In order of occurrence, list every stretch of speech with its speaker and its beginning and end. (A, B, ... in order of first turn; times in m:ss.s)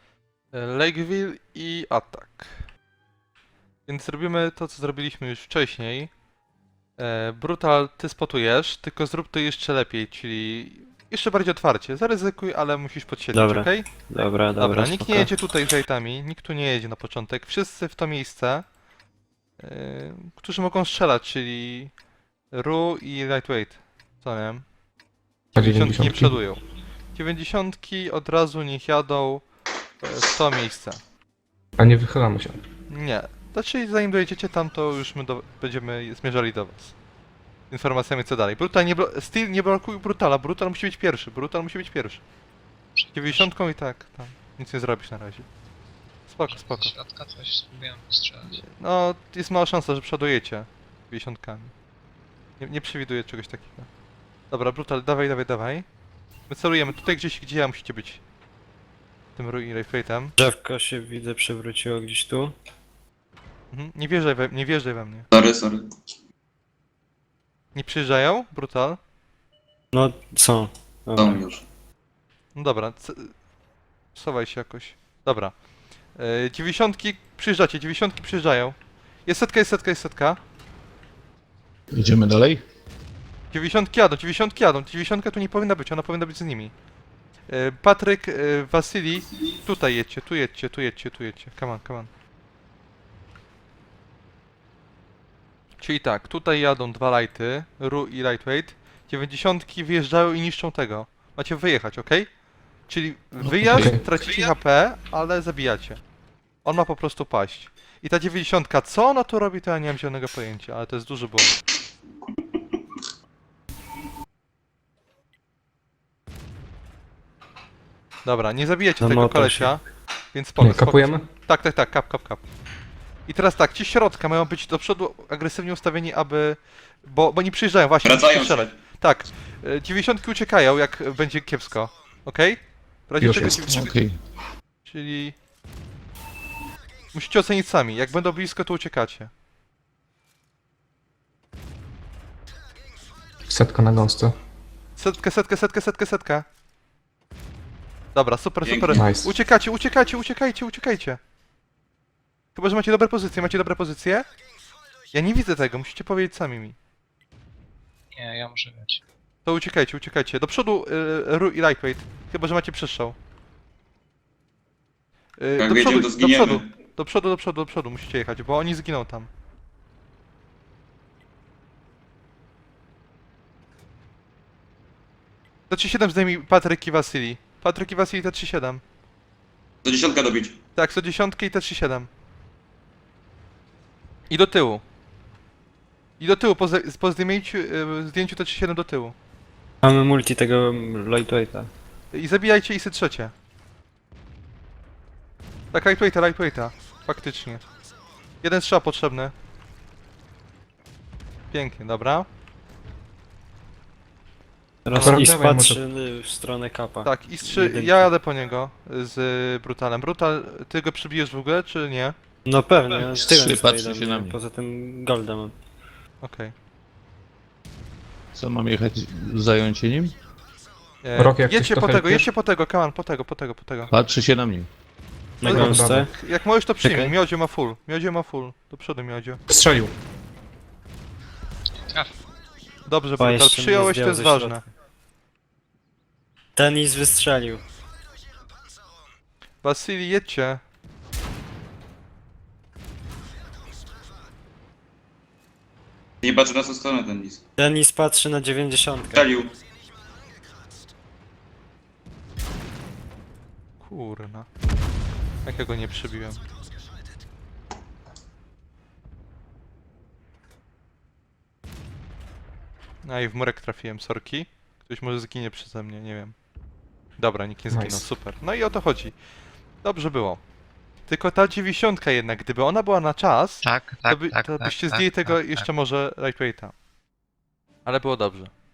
0:00.5-0:02.6 A
0:03.9-0:06.1 A
0:07.0-0:13.9 A
0:13.3-0:15.3 B
0:14.6-0:18.6 A
0:19.6-0:21.9 A
0:22.5-0:24.6 A
0:25.5-0:26.4 C
0:25.6-0:26.6 A
0:27.1-0:29.4 A
0:30.0-0:31.0 A
0:31.8-0:32.6 C
0:32.9-0:36.9 A
0:37.7-0:42.2 A
0:43.0-0:43.5 D
0:43.1-0:45.4 A
0:46.3-0:46.9 A
0:46.5-0:48.6 D
0:48.5-0:51.7 A
0:52.6-0:53.9 A
0:54.5-0:55.8 A
0:56.5-0:58.2 A
0:59.4-1:00.3 A
1:00.4-1:02.5 B
1:03.7-1:05.2 A
1:05.3-1:05.9 E
1:07.7-1:09.0 A
1:09.9-1:11.4 B
1:11.1-1:11.6 E
1:12.6-1:13.3 A
1:14.1-1:15.5 A
1:16.2-1:20.4 A
1:21.9-1:22.6 F
1:23.5-1:26.7 A
1:27.5-1:32.1 A
1:35.8-1:42.3 A
1:42.9-1:46.0 A
1:43.5-1:43.8 F
1:43.6-1:44.0 C
1:46.6-1:51.6 A
1:58.2-1:59.8 A
1:59.0-1:59.7 B
2:00.3-2:02.4 A
2:00.6-2:01.2 C
2:03.3-2:14.0 A
2:08.0-2:08.7 E
2:13.2-2:13.6 C
2:13.5-2:14.1 F
2:14.8-2:15.4 A
2:17.1-2:19.3 A
2:23.5-2:24.3 C
2:25.0-2:26.4 A
2:28.1-2:31.2 A
2:28.6-2:29.0 E
2:28.9-2:29.3 C
2:32.5-2:34.2 A
2:35.1-2:36.8 A
2:38.1-2:39.0 D
2:39.4-2:43.2 A
2:45.4-2:49.3 A
2:45.6-2:46.7 E
2:55.7-2:58.8 A
2:59.8-3:00.6 E
3:00.8-3:02.1 A
3:04.3-3:04.8 A
3:06.2-3:09.1 A
3:09.8-3:11.7 B
3:12.1-3:13.3 A
3:15.7-3:17.6 A
3:18.4-3:19.3 A
3:21.5-3:22.3 A
3:24.8-3:28.1 B
3:24.9-3:25.8 C
3:24.9-3:25.2 A
3:27.0-3:32.1 A
3:32.4-3:35.5 B
3:33.1-3:34.4 F
3:36.2-3:36.5 A
3:38.3-3:40.2 F
3:41.0-3:43.9 A
3:41.1-3:42.3 C
3:43.9-3:44.7 F
3:45.4-3:46.1 B
3:45.4-3:46.1 C
3:45.4-3:49.4 A
3:46.8-3:47.1 B
3:49.5-3:49.9 C
3:52.8-3:54.7 A
3:53.2-3:54.6 B
3:56.6-3:57.6 B
3:59.6-4:00.6 A
4:06.2-4:07.4 E
4:07.6-4:09.3 B
4:09.1-4:09.5 E
4:13.8-4:14.5 A
4:15.4-4:16.4 A
4:23.0-4:26.3 A
4:27.2-4:29.2 A
4:27.7-4:28.0 C
4:29.8-4:30.4 A
4:31.1-4:36.7 A
4:33.6-4:35.6 D
4:37.8-4:38.5 A